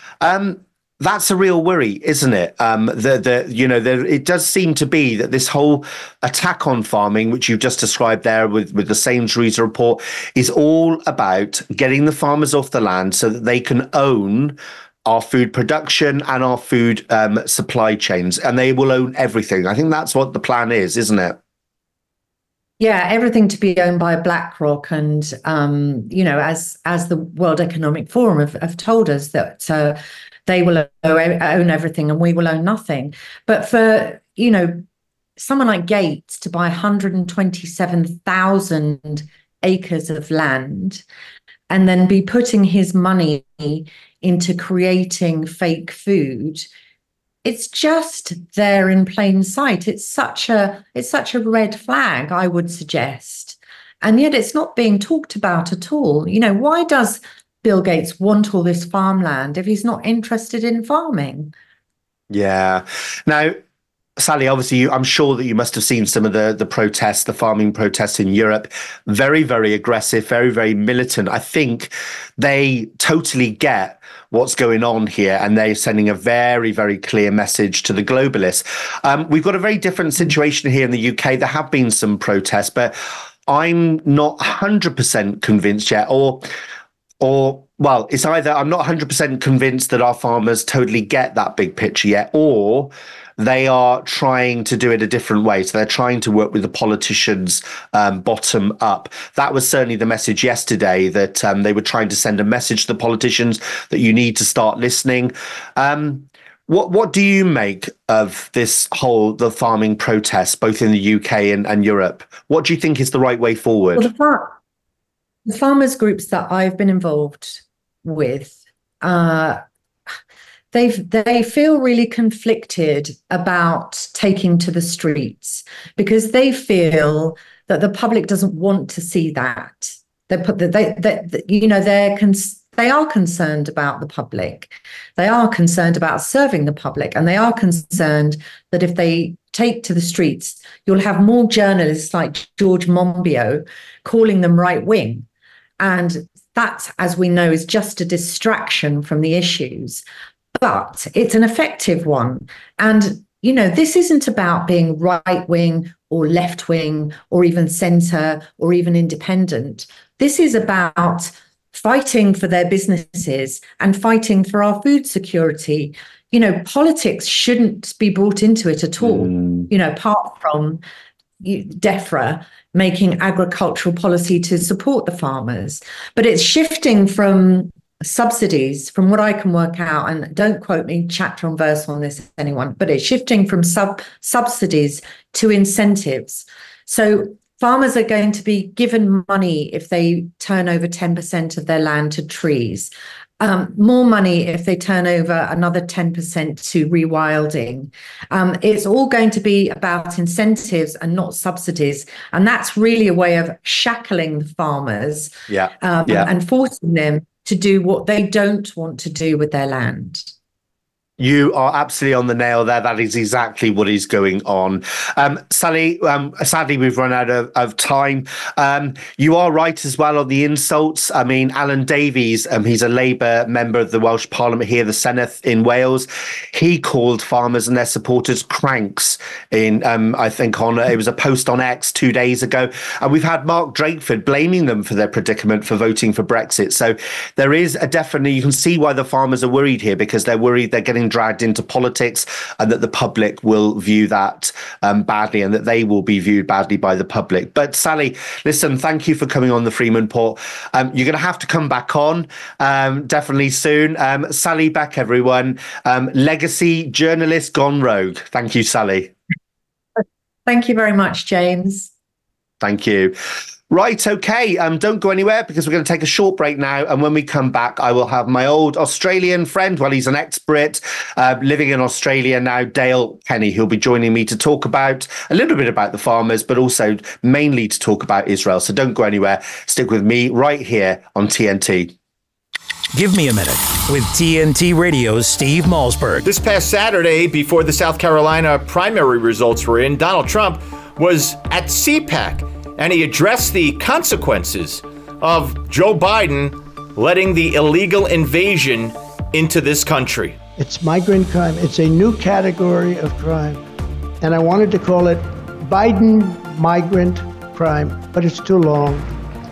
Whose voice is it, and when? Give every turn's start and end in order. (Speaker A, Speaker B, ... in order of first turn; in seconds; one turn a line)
Speaker A: 0.2-21.4
Speaker B: 22.8-34.8
Speaker B: 35.4-41.0
Speaker B: 41.7-46.7
Speaker B: 47.4-61.5
Speaker A: 62.3-63.6
Speaker A: 64.2-83.0
Speaker A: 83.5-86.5
Speaker A: 87.2-114.1
Speaker B: 114.0-114.5
Speaker B: 115.5-119.6
Speaker B: 120.7-145.2
Speaker B: 145.8-150.0
Speaker B: 150.6-170.8
Speaker A: 169.0-169.7
Speaker B: 171.4-210.3
Speaker A: 205.5-206.3
Speaker A: 211.2-259.1
Speaker B: 260.4-261.9
Speaker A: 262.6-263.2
Speaker A: 263.7-281.9
Speaker C: 282.9-286.2
Speaker D: 286.2-300.4
Speaker E: 300.6-303.6
Speaker E: 304.2-309.1